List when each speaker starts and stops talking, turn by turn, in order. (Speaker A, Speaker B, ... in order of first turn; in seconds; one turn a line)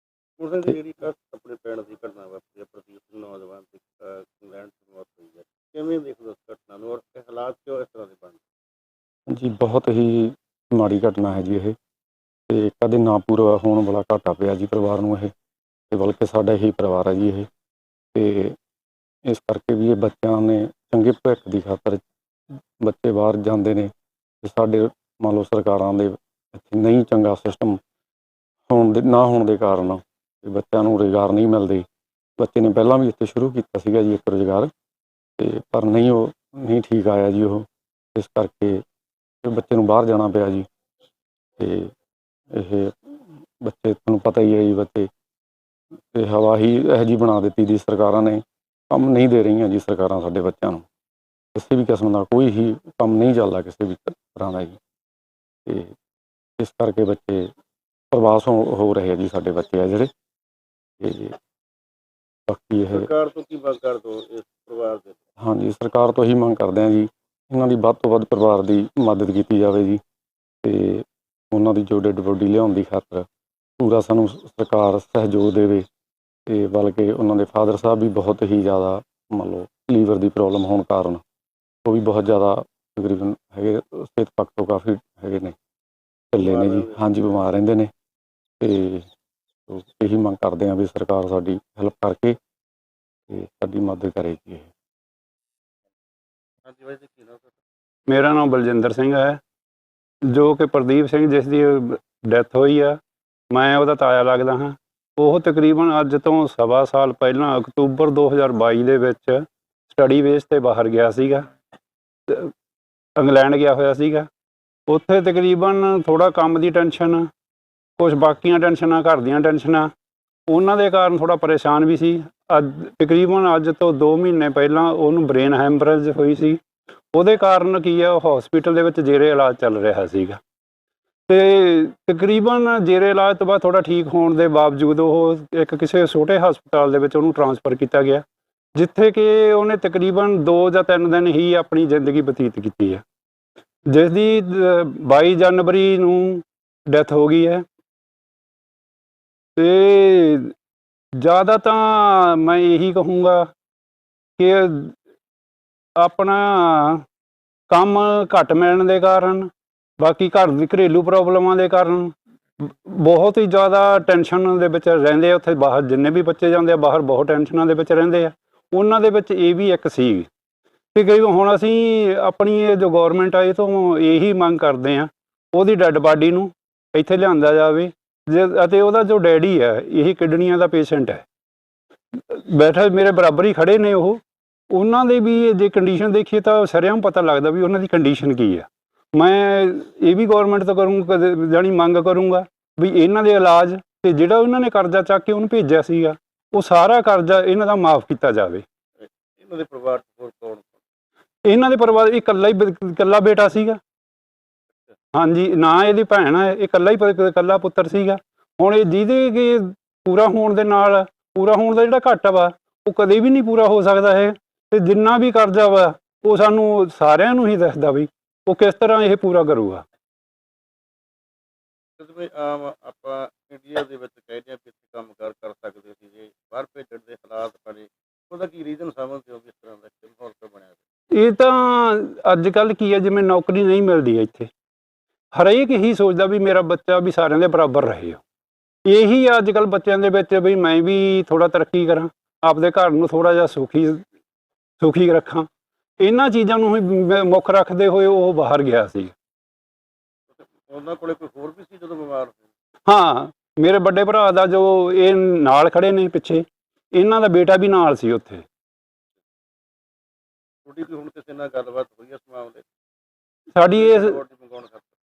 Speaker A: 0.4-8.4
Speaker B: 9.3-11.7
Speaker B: 12.5-15.3
Speaker B: 15.9-17.5
Speaker B: 18.1-18.6
Speaker B: 19.2-22.0
Speaker B: 22.8-27.8
Speaker B: 28.7-31.8
Speaker B: 32.4-34.7
Speaker B: 35.4-38.8
Speaker B: 39.4-40.6
Speaker B: 41.6-41.9
Speaker B: 42.5-45.1
Speaker B: 46.1-50.8
Speaker B: 51.5-54.8
Speaker B: 55.6-55.9
Speaker B: 56.6-57.5
Speaker B: 58.1-60.1
Speaker B: 61.0-61.4
Speaker B: 62.5-63.1
Speaker A: 62.9-65.2
Speaker B: 65.4-70.0
Speaker B: 70.6-73.2
Speaker B: 73.8-75.8
Speaker B: 76.5-81.2
Speaker B: 81.8-85.5
Speaker B: 86.3-87.9
Speaker A: 86.3-87.3
Speaker B: 88.6-89.1
Speaker B: 89.7-92.4
Speaker B: 93.3-94.7
Speaker A: 96.6-97.6
Speaker C: 98.1-99.4
Speaker C: 100.2-103.0
Speaker C: 103.5-111.5
Speaker C: 112.3-112.5
Speaker C: 113.2-114.3
Speaker C: 114.9-117.3
Speaker C: 118.0-119.9
Speaker C: 120.5-126.6
Speaker C: 127.1-130.4
Speaker C: 131.3-138.2
Speaker C: 138.7-143.0
Speaker C: 143.9-147.6
Speaker C: 149.6-150.5
Speaker C: 151.2-153.5
Speaker C: 154.4-154.9
Speaker C: 156.0-157.0
Speaker C: 157.7-170.3
Speaker C: 170.9-181.2
Speaker C: 182.1-198.6
Speaker A: 199.0-200.8
Speaker C: 201.4-203.8
Speaker C: 205.1-219.8
Speaker A: 222.0-230.8
Speaker C: 231.1-234.5
Speaker C: 235.3-238.2
Speaker C: 238.8-244.0
Speaker C: 244.8-245.5
Speaker C: 246.0-249.1
Speaker A: 250.3-252.5
Speaker C: 252.9-258.4
Speaker A: 260.6-262.6
Speaker C: 263.5-264.2
Speaker A: 263.7-264.9